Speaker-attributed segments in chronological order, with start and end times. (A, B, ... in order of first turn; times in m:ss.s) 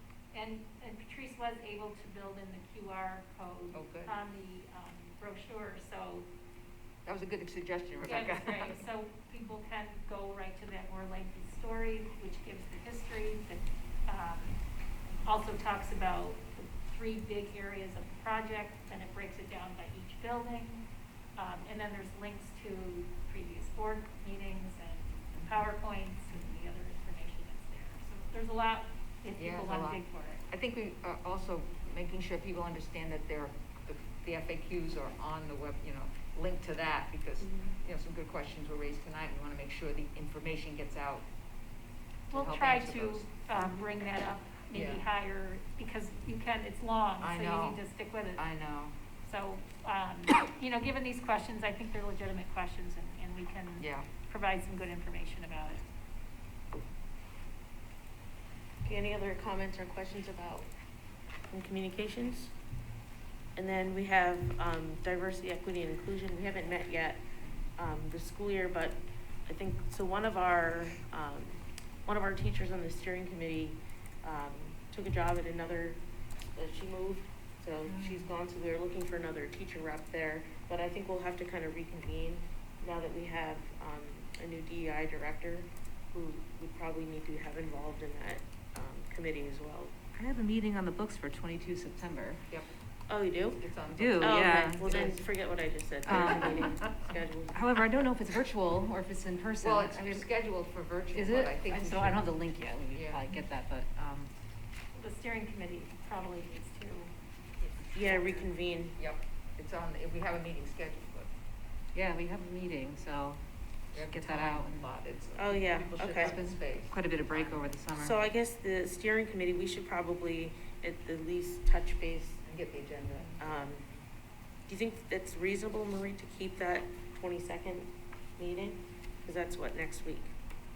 0:00.3-0:06.3 A
0:03.7-0:04.2 B
0:07.0-0:08.8 B
0:08.0-0:14.6 A
0:15.2-0:20.8 A
0:21.4-0:30.4 A
0:29.4-0:41.3 B
0:37.4-0:37.7 C
0:42.3-0:43.3 B
0:42.3-0:48.4 A
0:44.7-0:45.0 B
0:47.2-0:47.8 B
0:48.3-0:49.0 B
0:49.2-0:55.8 A
0:53.8-0:54.1 B
0:58.8-1:00.7 C
1:01.5-1:02.5 C
1:03.6-1:07.2 C
1:07.8-1:29.9 C
1:17.8-1:18.3 D
1:30.1-1:32.4 D
1:33.1-1:33.6 C
1:33.6-1:35.2 B
1:33.9-1:35.2 D
1:34.2-1:38.0 C
1:36.0-1:36.9 D
1:36.1-1:36.6 B
1:37.5-1:40.2 D
1:39.6-1:42.2 B
1:41.1-1:44.3 D
1:42.9-1:43.2 B
1:44.9-1:47.1 A
1:47.6-1:51.3 B
1:47.9-1:49.0 C
1:51.9-1:53.4 D
1:53.9-1:54.9 D
1:53.9-1:57.7 B
1:55.3-1:56.3 C
1:56.2-1:58.2 D
1:58.0-2:02.4 C
2:02.4-2:03.9 B
2:03.4-2:03.8 C
2:04.7-2:10.3 C